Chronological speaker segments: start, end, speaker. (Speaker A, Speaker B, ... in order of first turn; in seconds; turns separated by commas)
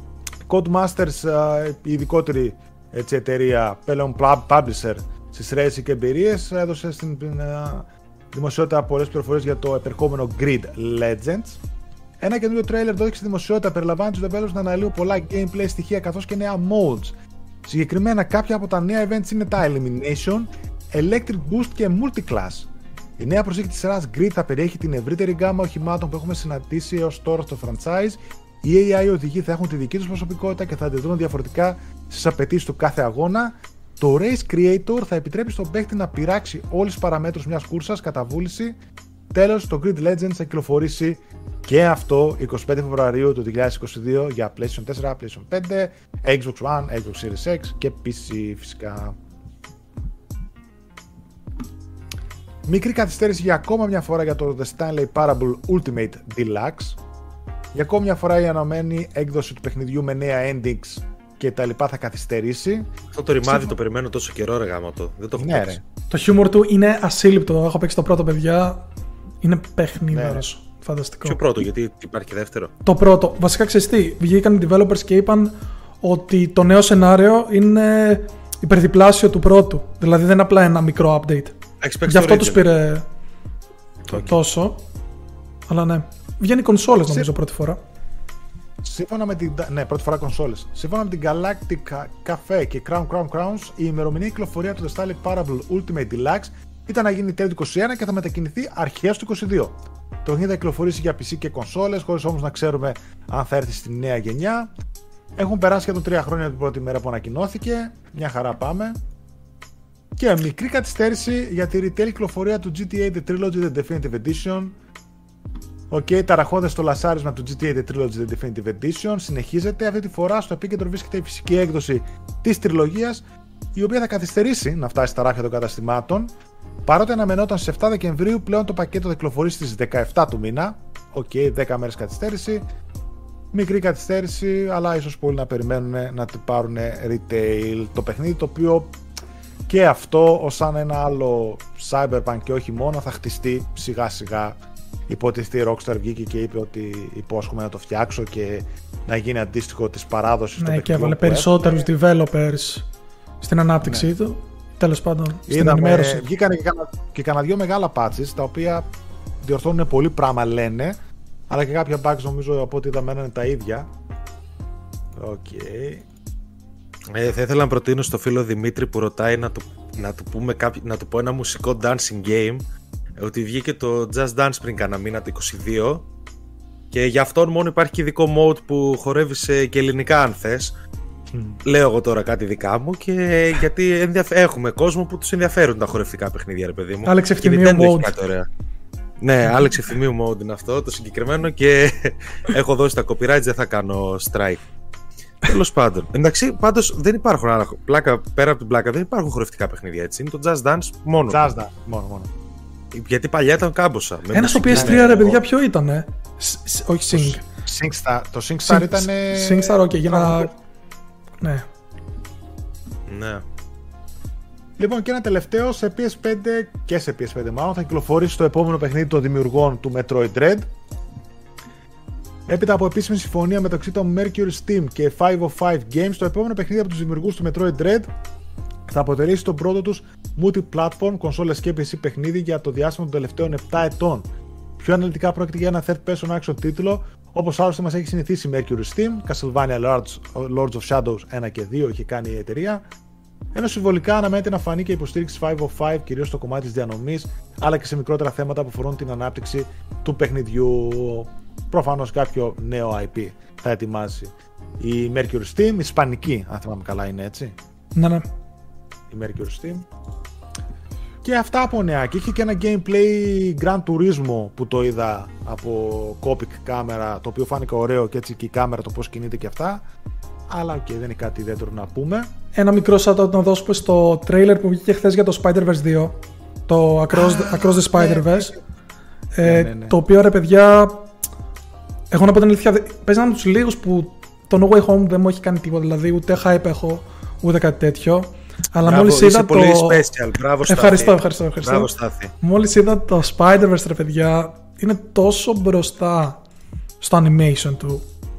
Speaker A: 0.5-11.6, Speaker A: 12.2-38.8, Speaker A: 39.3-49.2, Speaker A: 52.7-57.0, Speaker A: 57.7-62.9, Speaker B: 63.1-65.8, Speaker A: 63.4-63.8, Speaker A: 65.4-65.8, Speaker C: 66.1-68.8, Speaker C: 69.4-71.4, Speaker A: 70.1-70.4, Speaker B: 71.2-72.7, Speaker C: 72.8-83.1, Speaker B: 81.8-82.7, Speaker C: 84.1-84.8, Speaker C: 85.7-87.8, Speaker A: 87.0-87.3, Speaker A: 88.8-104.7, Speaker A: 105.4-109.0, Speaker A: 110.2-114.8, Speaker A: 115.9-123.2, Speaker A: 123.7-126.3, Speaker A: 126.9-132.7, Speaker A: 133.5-139.0, Speaker A: 139.7-151.9, Speaker C: 150.6-152.9, Speaker C: 153.4-156.2, Speaker A: 153.8-154.1, Speaker A: 155.5-158.9, Speaker A: 159.4-161.0, Speaker A: 161.5-163.9, Speaker A: 165.2-166.1, Speaker B: 167.1-172.6, Speaker B: 173.2-176.1, Speaker B: 176.9-180.7, Speaker A: 181.3-181.6, Speaker B: 181.7-188.5, Speaker C: 187.1-188.1, Speaker B: 189.2-194.6, Speaker B: 195.4-201.5, Speaker A: 201.3-202.3, Speaker B: 202.9-205.4, Speaker C: 204.3-207.4, Speaker A: 204.7-205.3, Speaker A: 207.1-210.5, Speaker C: 208.7-210.5, Speaker C: 211.4-211.7, Speaker B: 213.1-213.4, Speaker A: 214.8-220.7, Speaker A: 222.5-228.1, Speaker A: 228.9-234.3, Speaker A: 234.8-242.8, Speaker A: 243.5-257.6, Speaker C: 257.9-258.3, Speaker A: 259.1-259.9, Speaker A: 261.2-269.8, Speaker A: 270.5-272.3, Speaker C: 272.5-278.6, Speaker A: 277.1-278.6, Speaker C: 279.4-281.1, Speaker A: 279.4-280.0, Speaker C: 282.1-290.0, Speaker B: 288.8-292.4, Speaker C: 290.7-291.9, Speaker C: 292.4-296.4, Speaker C: 297.0-298.0